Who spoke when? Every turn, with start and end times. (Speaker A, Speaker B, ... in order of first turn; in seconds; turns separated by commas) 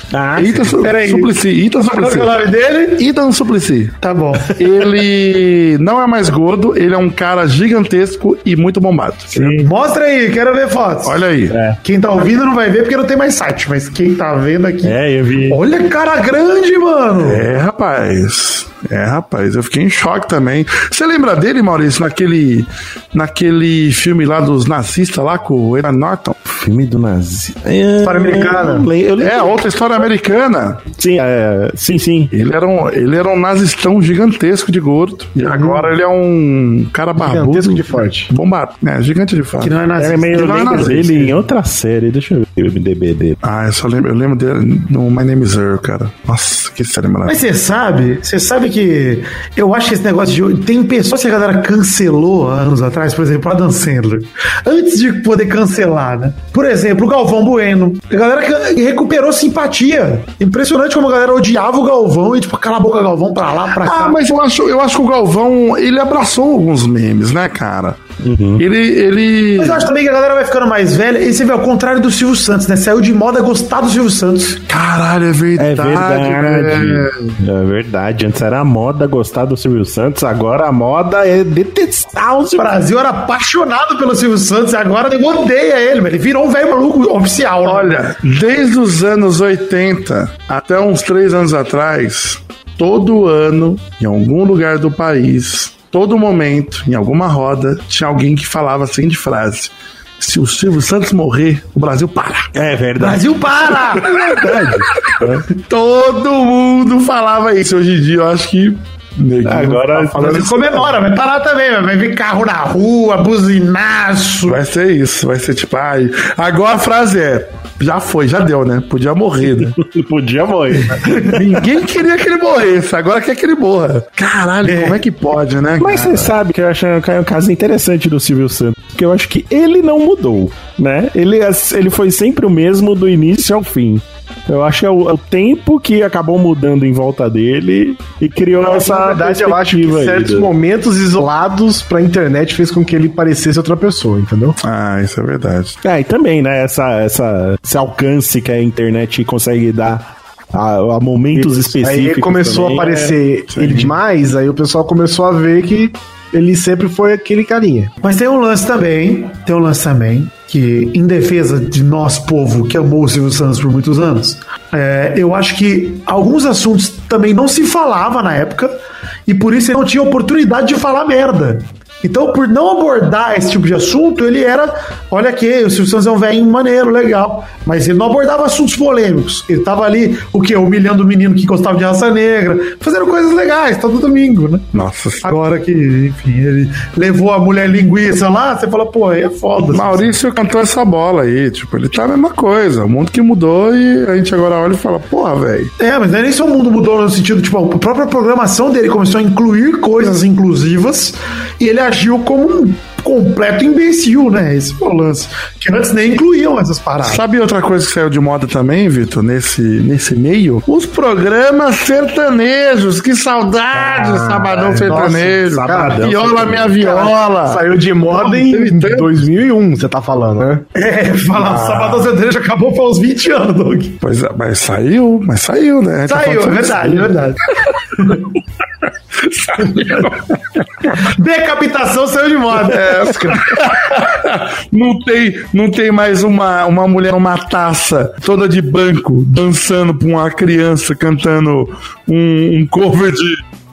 Speaker A: 0.1-0.8, Speaker B: 0.3-2.4, Speaker C: 0.8-1.3, Speaker C: 1.9-3.0, Speaker B: 2.9-4.0, Speaker C: 4.0-4.5, Speaker B: 4.5-9.5, Speaker A: 9.3-9.7, Speaker C: 9.5-11.2, Speaker B: 11.0-11.6, Speaker A: 11.5-11.8, Speaker C: 11.8-14.9, Speaker A: 14.8-15.6, Speaker C: 15.5-17.4, Speaker B: 17.2-26.3, Speaker A: 26.5-29.6, Speaker D: 28.0-28.9, Speaker B: 29.2-30.9, Speaker A: 31.0-32.3, Speaker B: 32.3-39.8, Speaker D: 37.2-38.3, Speaker C: 39.6-41.3, Speaker A: 40.0-43.4, Speaker B: 40.3-41.2, Speaker B: 43.4-47.4, Speaker C: 47.2-64.2, Speaker B: 63.7-68.0, Speaker A: 68.2-68.6, Speaker B: 68.6-69.9, Speaker C: 69.6-74.6, Speaker B: 74.7-77.4, Speaker A: 75.6-82.8, Speaker C: 82.6-88.0, Speaker B: 87.6-102.5, Speaker A: 102.5-105.4, Speaker C: 103.0-104.1, Speaker B: 104.0-110.3, Speaker A: 109.4-110.8, Speaker C: 110.1-114.6, Speaker B: 114.5-119.8, Speaker A: 119.7-121.5, Speaker C: 120.9-121.3, Speaker B: 121.3-126.3, Speaker C: 124.6-125.0, Speaker A: 125.8-140.5, Speaker D: 138.6-144.6, Speaker B: 144.6-145.8, Speaker A: 145.8-153.2, Speaker D: 151.8-157.9, Speaker B: 153.5-153.9, Speaker C: 158.0-168.7, Speaker C: 169.3-184.7, Speaker B: 184.7-185.3, Speaker C: 185.2-190.1, Speaker B: 189.7-195.7, Speaker C: 195.8-207.2, Speaker B: 207.0-219.3, Speaker D: 214.6-215.9, Speaker A: 214.9-216.8, Speaker D: 216.8-220.6, Speaker C: 220.7-224.0, Speaker B: 221.3-222.1, Speaker B: 224.0-227.1, Speaker C: 226.1-228.2, Speaker B: 229.2-230.6, Speaker C: 230.9-233.4, Speaker B: 232.5-243.4